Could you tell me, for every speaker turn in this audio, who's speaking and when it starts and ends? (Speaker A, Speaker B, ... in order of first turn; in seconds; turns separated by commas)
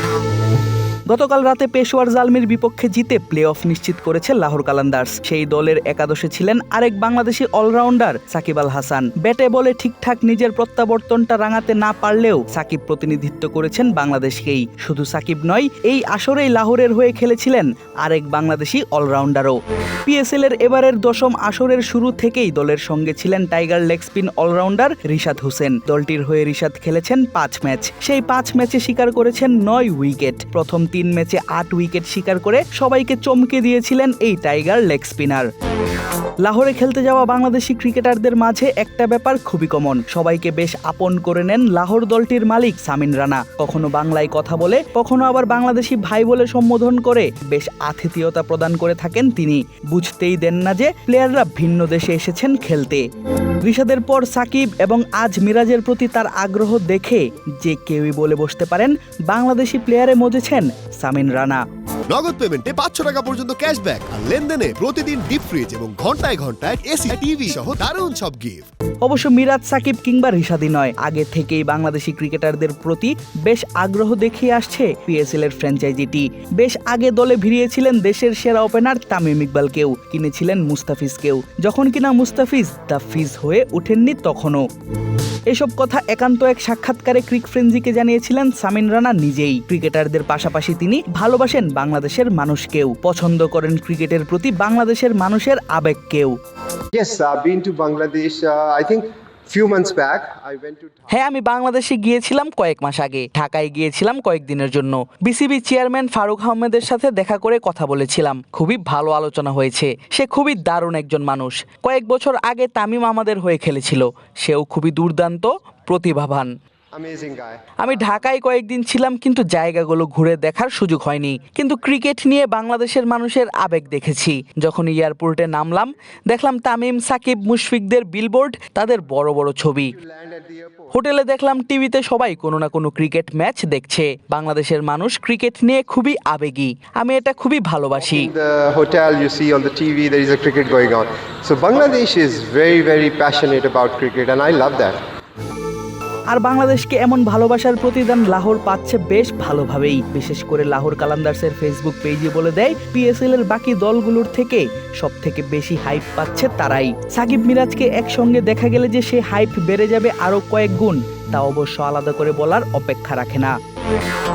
Speaker A: 1.1-35.5, Speaker A: 36.4-53.1, Speaker A: 53.6-61.6, Speaker B: 62.1-68.6, Speaker A: 69.0-84.7, Speaker A: 85.5-96.4, Speaker C: 96.9-101.0, Speaker A: 101.1-116.5, Speaker C: 116.9-117.8, Speaker A: 117.8-130.0, Speaker C: 130.0-130.9, Speaker A: 130.9-138.3, Speaker C: 138.0-145.0, Speaker A: 146.3-163.6